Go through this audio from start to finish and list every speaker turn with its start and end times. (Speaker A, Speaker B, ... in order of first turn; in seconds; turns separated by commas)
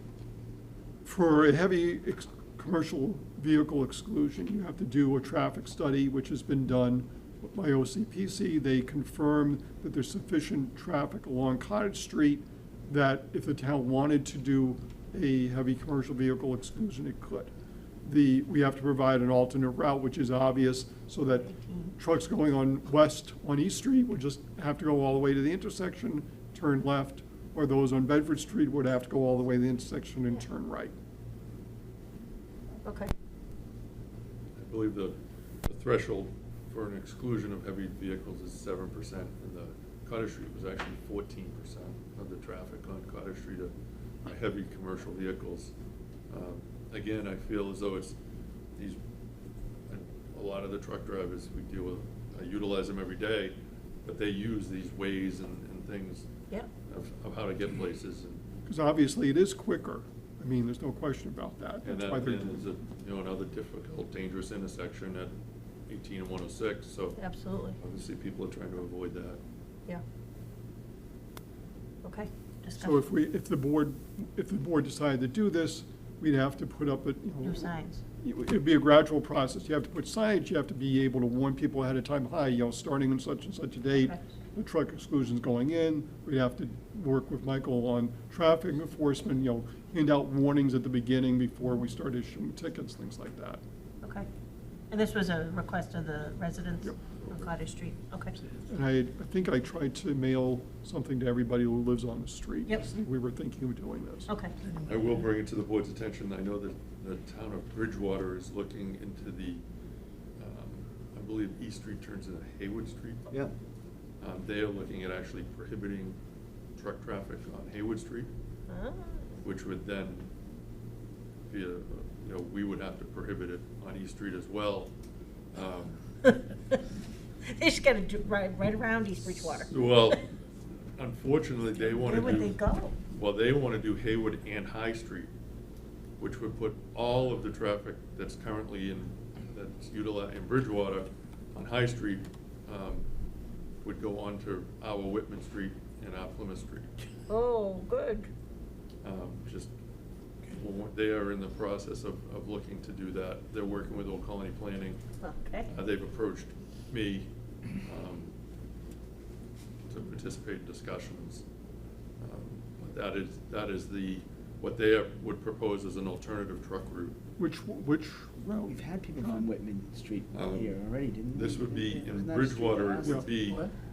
Speaker A: 1.1-17.5, Speaker A: 18.1-30.9, Speaker B: 21.3-21.9, Speaker B: 32.9-33.1, Speaker C: 34.6-43.7, Speaker C: 44.2-45.7, Speaker C: 46.3-48.2, Speaker C: 49.9-56.3, Speaker C: 56.9-58.4, Speaker A: 58.7-62.6, Speaker C: 61.8-65.3, Speaker C: 65.9-67.2, Speaker B: 67.2-67.8, Speaker C: 67.8-69.4, Speaker B: 72.0-73.0, Speaker A: 72.8-77.7, Speaker B: 77.4-78.0, Speaker A: 78.2-93.6, Speaker B: 94.0-94.3, Speaker B: 94.9-98.4, Speaker C: 97.2-97.5, Speaker A: 98.7-104.3, Speaker B: 104.3-104.5, Speaker C: 104.9-109.6, Speaker C: 110.4-113.3, Speaker C: 114.2-116.2, Speaker C: 116.8-118.3, Speaker B: 118.7-119.4, Speaker C: 119.4-120.3, Speaker C: 121.5-124.9, Speaker C: 125.5-126.0, Speaker B: 126.2-126.8, Speaker B: 127.5-129.7, Speaker C: 129.5-130.3, Speaker C: 131.0-132.6, Speaker B: 131.9-132.9, Speaker C: 133.1-135.3, Speaker C: 136.2-143.1, Speaker C: 143.8-146.9, Speaker B: 147.3-148.3, Speaker C: 149.0-149.7, Speaker C: 150.5-155.0, Speaker B: 155.2-155.7, Speaker C: 155.7-158.3, Speaker C: 159.9-161.4, Speaker C: 162.2-167.2, Speaker A: 167.4-169.5, Speaker D: 168.7-173.5, Speaker C: 170.3-170.8, Speaker C: 171.3-173.7, Speaker A: 173.0-173.3